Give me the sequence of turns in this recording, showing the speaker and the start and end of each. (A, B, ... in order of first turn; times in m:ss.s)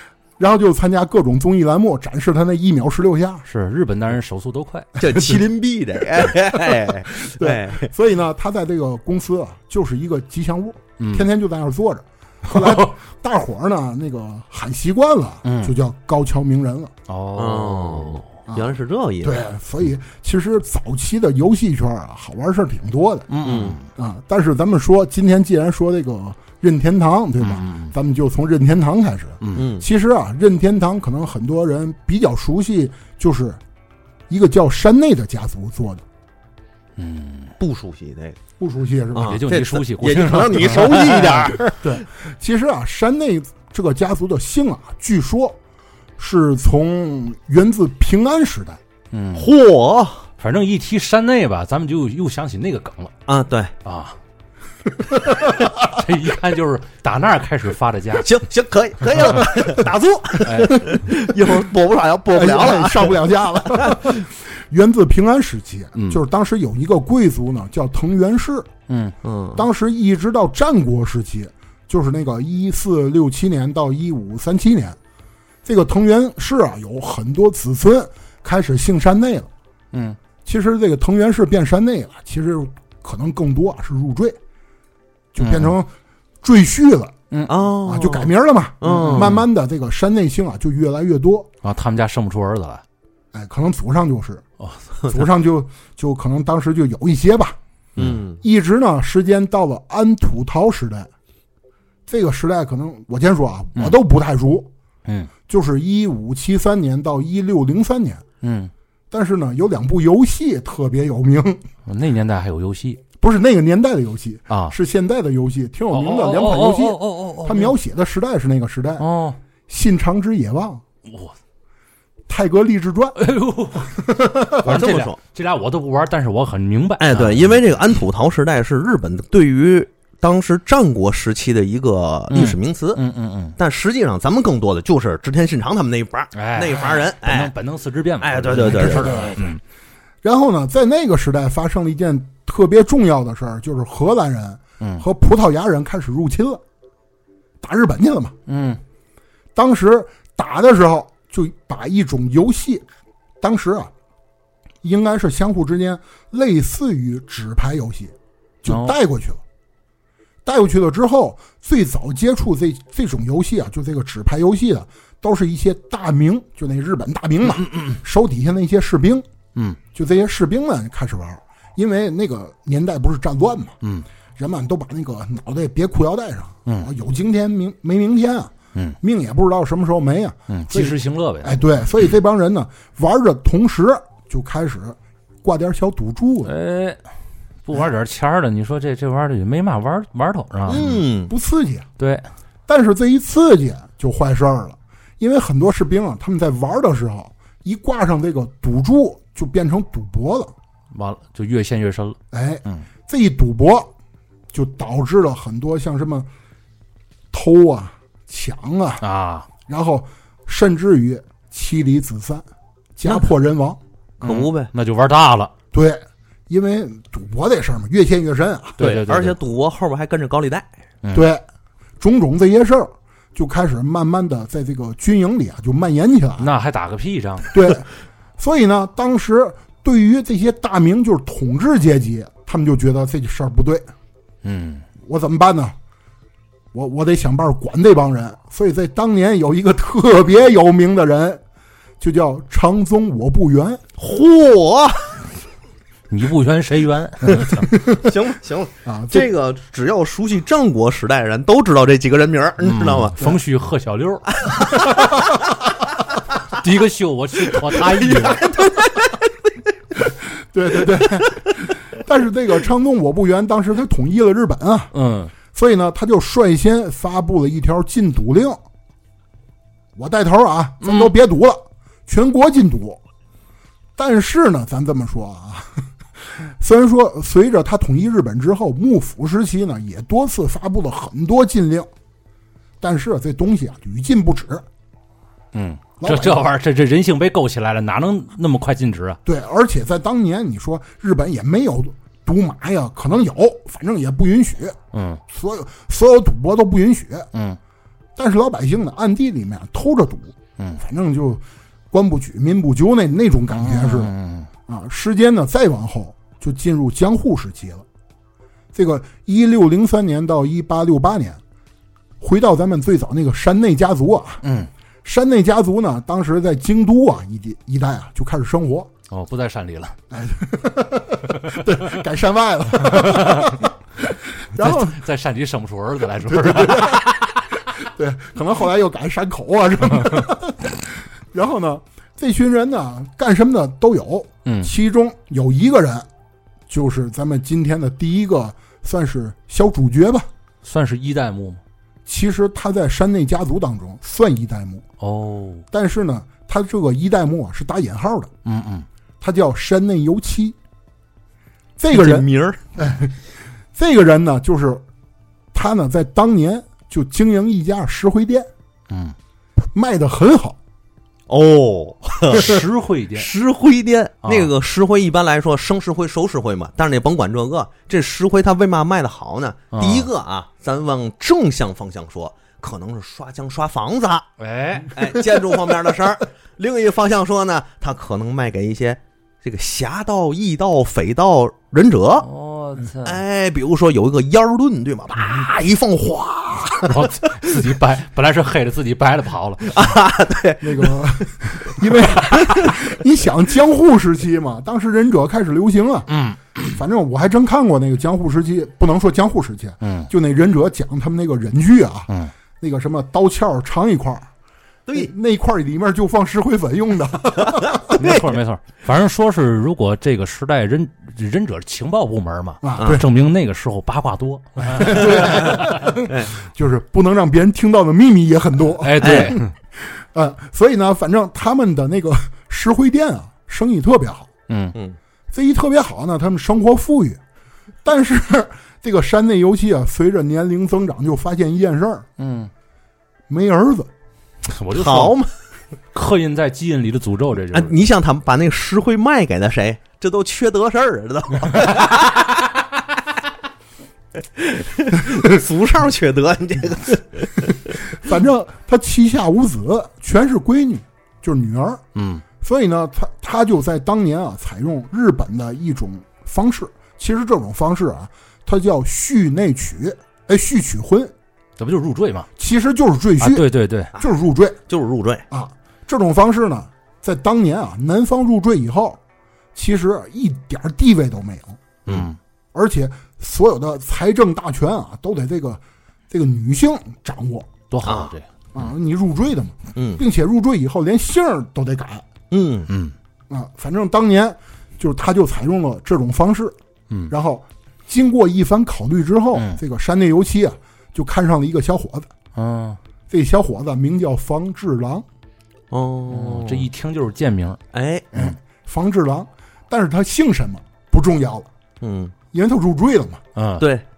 0:00.4-0:03.4 A
0:03.4-0:04.9 B
0:05.0-0:07.9 C
0:06.6-0:16.9 A
0:11.0-0:11.2 B
0:12.5-0:12.9 B
0:15.4-0:15.7 B
0:17.1-0:18.2 B
0:17.4-0:19.4 C
0:18.5-0:23.3 A
0:23.3-0:23.9 B
0:23.4-0:23.8 C
0:23.9-0:33.6 A
0:27.4-0:27.9 B
0:29.5-0:29.8 C
0:34.3-0:36.0 A
0:37.0-0:37.5 B
0:37.6-0:38.4 C
0:38.6-0:39.4 A
0:39.1-0:41.9 C
0:39.2-0:41.6 B
0:41.8-0:45.6 A
0:46.2-0:48.8 A
0:49.1-0:49.5 B
0:49.3-0:50.3 C
0:50.4-0:53.1 B
0:53.3-0:53.7 C
0:53.8-0:54.2 B
0:55.7-0:58.3 B
0:58.2-1:04.0 C
1:00.4-1:00.8 B
1:02.3-1:08.7 A
1:06.0-1:06.2 B
1:08.9-1:09.1 B
1:09.2-1:09.6 C
1:09.5-1:15.0 A
1:15.6-1:19.5 A
1:20.4-1:24.4 A
1:25.3-1:25.9 A
1:25.4-1:25.7 B
1:26.4-1:27.1 A
1:27.5-1:29.4 C
1:27.8-1:31.5 A
1:28.8-1:29.4 B
1:31.6-1:32.8 B
1:33.3-1:34.4 A
1:34.6-1:35.0 B
1:35.1-1:37.6 A
1:38.0-1:38.4 C
1:38.4-1:41.1 A
1:42.1-1:44.7 A
1:45.0-1:45.3 B
1:45.5-1:48.2 A
1:48.4-1:48.7 B
1:49.1-1:51.6 A
1:51.8-1:53.0 B
1:53.2-1:59.0 A
1:54.5-1:54.7 B
1:55.9-1:57.7 B
1:59.0-1:59.4 B
1:59.7-2:00.8 A
2:01.1-2:01.3 B
2:02.3-2:03.2 A
2:03.2-2:03.9 B
2:03.8-2:04.6 A
2:04.6-2:07.6 B
2:04.6-2:05.2 C
2:07.0-2:13.0 C
2:12.3-2:13.6 B
2:13.6-2:17.5 C
2:16.3-2:19.6 B
2:18.2-2:19.3 C
2:18.6-2:19.5 A
2:20.2-2:26.6 A
2:27.6-2:28.3 A
2:28.5-2:28.8 B
2:29.5-2:32.8 A
2:33.4-2:33.9 A
2:34.8-2:39.4 A
2:38.7-2:38.9 B
2:40.4-2:49.2 A
2:47.5-2:48.0 B
2:49.9-2:53.8 A
2:54.4-3:06.5 A
3:00.5-3:01.6 B
3:06.4-3:07.0 B
3:07.6-3:10.8 B
3:10.7-3:11.3 C
3:10.7-3:11.9 A
3:12.0-3:12.3 B
3:12.7-3:20.5 A
3:20.9-3:22.8 B
3:22.3-3:23.9 A
3:24.5-3:26.3 A
3:27.3-3:29.0 A
3:29.0-3:29.5 B
3:29.7-3:33.8 A
3:34.2-3:34.7 C
3:34.2-3:35.5 B
3:35.7-3:38.8 A
3:38.8-3:39.4 B
3:38.8-3:40.7 C
3:41.1-3:41.4 A
3:42.0-3:46.5 A
3:46.4-3:47.5 B
3:47.5-3:47.8 A
3:48.4-3:53.9 A
3:54.4-3:54.8 B
3:55.0-3:55.7 A
3:56.7-4:01.4 A
4:02.0-4:03.8 A
4:04.0-4:05.2 C
4:06.1-4:07.7 B
4:07.6-4:08.1 A
4:07.9-4:13.2 C
4:08.8-4:09.3 A
4:12.6-4:14.3 B
4:14.3-4:15.3 C
4:14.9-4:15.4 A
4:16.5-4:18.5 B
4:17.8-4:19.3 C
4:20.2-4:24.9 A
4:24.9-4:25.3 B
4:25.5-4:28.6 A
4:30.0-4:33.0 A
4:34.0-4:41.9 A
4:42.8-4:44.6 A
4:45.5-4:49.2 B
4:46.0-4:46.4 A
4:49.2-4:54.8 A
4:54.9-4:55.2 B
4:55.3-4:57.3 A
4:57.3-4:57.6 B
4:58.2-5:04.1 A
5:03.5-5:04.5 B
5:04.7-5:07.8 A
5:08.7-5:11.4 A
5:12.2-5:14.4 A
5:14.4-5:14.7 B
5:15.0-5:18.9 A
5:19.1-5:20.0 B
5:20.1-5:23.7 A
5:22.9-5:23.6 B
5:24.4-5:25.0 A
5:24.6-5:27.1 B
5:26.3-5:27.2 A
5:27.8-5:36.1 A
5:34.4-5:34.7 B
5:36.7-5:40.3 A
5:40.6-5:41.6 B
5:42.0-5:44.8 A
5:45.0-5:45.6 B
5:45.7-5:48.3 A
5:48.4-5:48.9 B
5:49.2-5:50.6 A
5:51.8-5:53.2 A
5:51.9-5:52.6 C
5:53.7-5:54.8 A
5:55.5-5:58.5 A
5:58.9-5:59.1 B
5:59.6-6:00.6 A
6:01.3-6:14.3 C
6:02.3-6:03.3 B
6:04.2-6:04.5 B
6:09.7-6:10.1 B
6:14.4-6:14.9 B
6:14.9-6:22.3 C
6:22.2-6:23.2 B
6:23.0-6:27.1 C
6:26.8-6:29.9 B
6:29.7-6:31.2 C
6:30.6-6:36.1 A
6:32.3-6:32.8 C
6:36.1-6:36.8 B
6:36.7-6:44.3 A
6:39.8-6:40.1 B
6:44.9-6:45.1 C
6:44.9-6:47.8 A
6:47.5-6:48.3 C
6:47.9-6:55.9 B
6:52.6-6:53.0 A
6:54.6-7:04.3 A
6:58.8-6:59.5 B
6:59.0-6:59.3 C
7:04.5-7:04.7 B
7:05.3-7:07.2 A
7:07.8-7:12.0 A
7:12.2-7:12.5 B
7:13.3-7:13.9 A
7:14.5-7:15.2 B
7:14.7-7:15.3 C
7:15.9-7:17.7 B
7:17.5-7:22.6 C
7:24.4-7:27.8 C
7:27.9-7:31.8 A
7:31.9-7:32.2 B
7:32.4-7:41.1 A
7:41.6-7:42.3 B
7:42.4-7:44.6 A
7:43.2-7:43.9 B
7:44.7-7:45.2 C
7:45.3-7:49.0 A
7:49.5-7:51.6 A
7:51.9-7:52.2 B
7:52.5-7:57.5 A
7:57.7-7:58.3 B
7:57.8-7:58.1 C
7:58.5-8:02.0 A
7:59.8-8:00.0 C
8:02.3-8:02.7 C
8:02.7-8:02.9 B
8:03.3-8:06.5 A
8:07.1-8:12.1 A
8:09.3-8:09.6 B
8:12.3-8:12.8 B
8:13.1-8:15.0 A
8:15.7-8:16.7 C
8:16.1-8:17.6 B
8:17.7-8:18.1 C
8:18.1-8:21.5 A
8:21.8-8:22.1 C
8:22.3-8:23.2 A
8:23.4-8:23.6 B
8:23.6-8:23.8 C